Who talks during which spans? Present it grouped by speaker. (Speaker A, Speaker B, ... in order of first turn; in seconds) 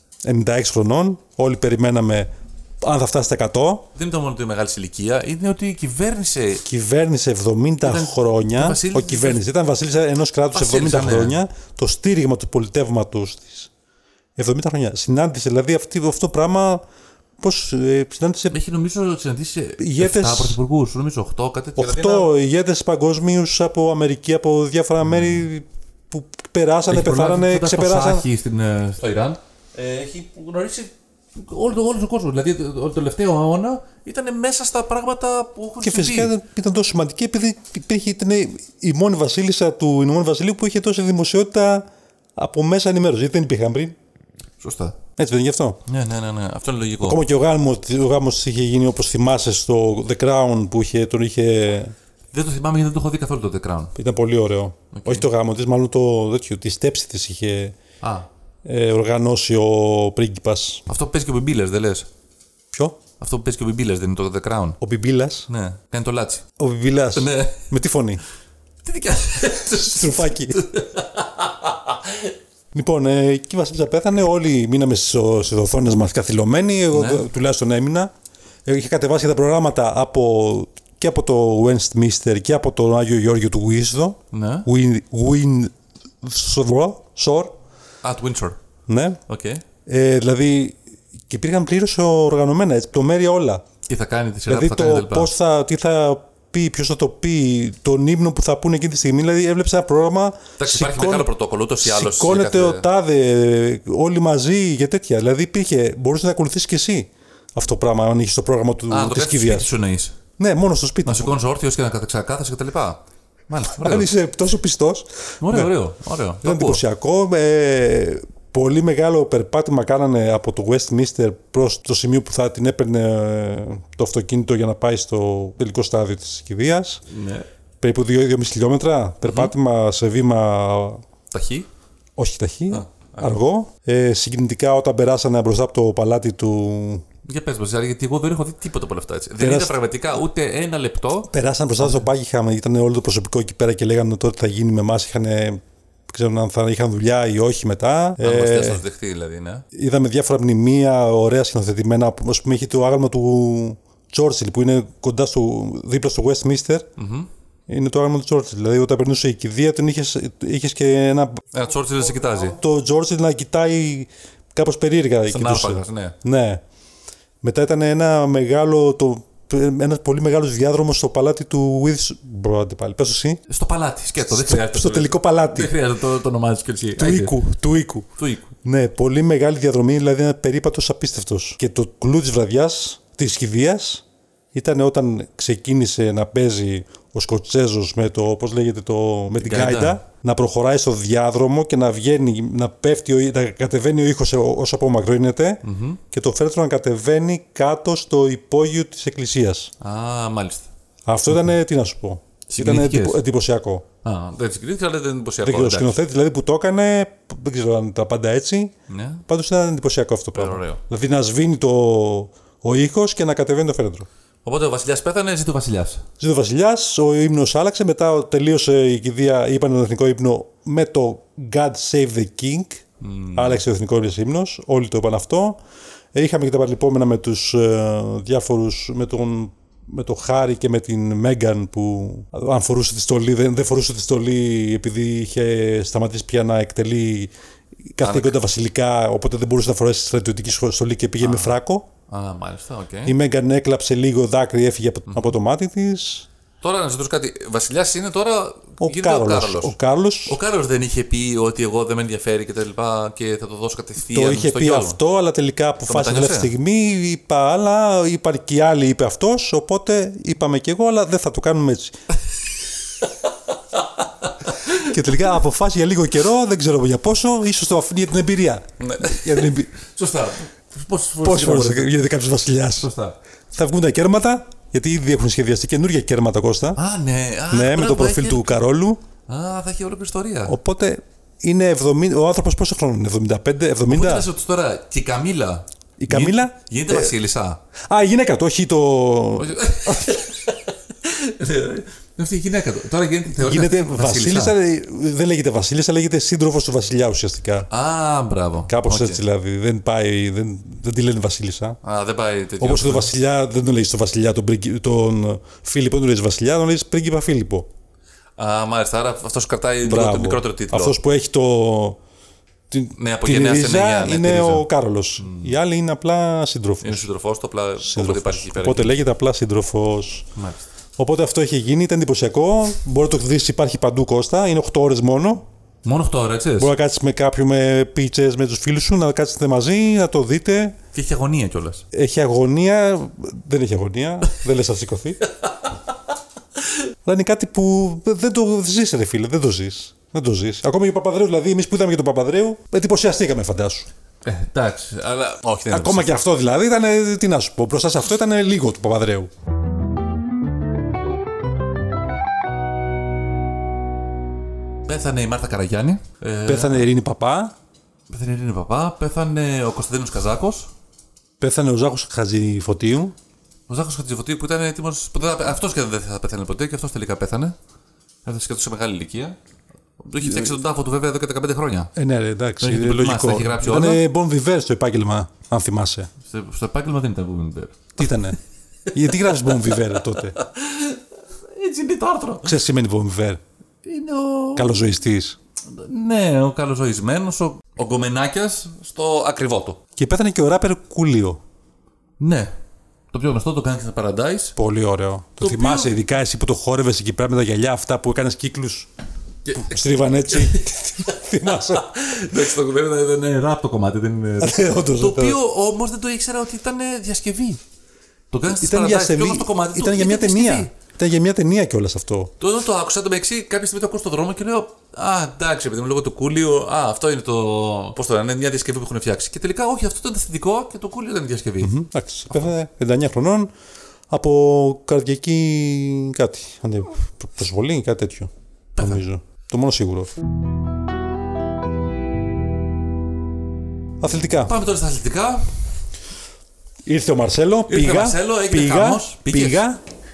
Speaker A: 0.2-2.3, 2.8-3.9, 6.6-13.7, 14.4-16.8, 17.4-18.6, 19.8-20.6, 21.8-28.2, 35.8-44.0, 45.2-45.8, 47.0-51.9, 53.9-57.8, 58.6-60.8, 62.7-63.0, 64.8-65.5, 66.6-68.2, 69.6-70.6, 72.7-78.1, 78.6-87.5, 88.9-89.2, 89.8-90.8, 91.3-93.6, 94.5-109.7, 110.4-111.3, 113.7-115.8, 116.4-127.0, 127.8-131.0, 132.2-137.0, 139.4-139.8, 141.3-148.8, 149.7-156.9, 157.7-161.4, 162.5-166.6, 167.4-173.4, 174.2-175.8, 177.0-178.1, 178.6-199.7, 201.1-203.8, 205.4-208.7, 209.3-214.1, 216.2-222.8, 223.3-225.6, 226.1-237.3, 237.9-241.9, 243.1-246.3, 248.8-250.4, 254.1-261.9, 264.7-269.7, 271.2-272.9, 273.5-276.8, 277.5-279.0, 280.5-284.3, 286.0-287.1, 287.8-290.2, 293.3-297.7, 298.7-301.8, 302.6-307.7, 309.8-312.0, 312.7-317.1, 317.8-320.3, 321.0-325.4, 326.6-330.8, 331.9-335.2, 337.0-343.9, 345.7-349.3, 356.4-357.5, 361.4-363.1, 370.2-370.5, 371.9-376.1, 378.0-378.4, 378.9-380.4, 382.4-383.4, 384.6-385.4, 389.9-391.4, 394.6-398.9, 399.5-401.9, 404.4-405.4, 408.5-412.3, 421.6-423.5, 424.1-430.1, 434.0-434.5, 436.9-439.8
Speaker B: 3.9-6.6, 7.8-9.4, 10.5-11.4, 18.5-22.3, 25.0-25.4, 26.9-36.3, 44.6-45.0, 45.9-47.2, 52.3-53.9, 54.9-55.2, 58.0-58.3, 60.9-62.1, 63.2-64.8, 65.5-66.4, 67.1-67.7, 68.8-72.3, 76.9-77.2, 84.3-84.7, 88.0-88.6, 89.3-89.6, 93.9-95.3, 100.6-102.8, 108.9-110.2, 111.0-114.1, 115.4-116.8, 127.1-127.5, 129.2-129.5, 131.3-131.7, 132.7-133.3, 137.2-142.1, 148.2-149.6, 157.0-157.3, 161.5-162.6, 165.3-166.2, 173.5-177.4, 178.2-178.5, 189.4-190.0, 195.6-196.0, 199.8-200.7, 202.5-203.2, 204.0-206.0, 208.9-209.2, 210.3-210.8, 214.4-216.0, 223.0-223.6, 238.0-238.3, 241.2-241.5, 242.1-243.1, 245.1-245.3, 246.6-249.7, 250.2-255.0, 255.8-256.5, 263.7-264.9, 268.8-271.9, 272.8-273.1, 276.8-278.6, 279.3-280.6, 283.9-287.6, 289.4-294.5, 297.7-299.2, 301.8-303.1, 308.4-310.9, 313.0-314.6, 315.2-315.5, 316.8-319.0, 320.4-320.6, 325.8-326.7, 330.9-331.8, 344.2-346.1, 354.9-356.9, 358.1-360.7, 363.7-367.6, 368.2-369.4, 370.0-371.9, 372.6-374.0, 376.2-378.1, 379.1-382.5, 383.8-384.7, 385.7-389.8, 392.2-392.5, 393.1-394.5, 395.4-395.9, 399.4-400.6, 401.5-407.6, 408.3-410.7, 412.4-421.8, 428.7-429.0, 434.4-435.5, 437.7-439.6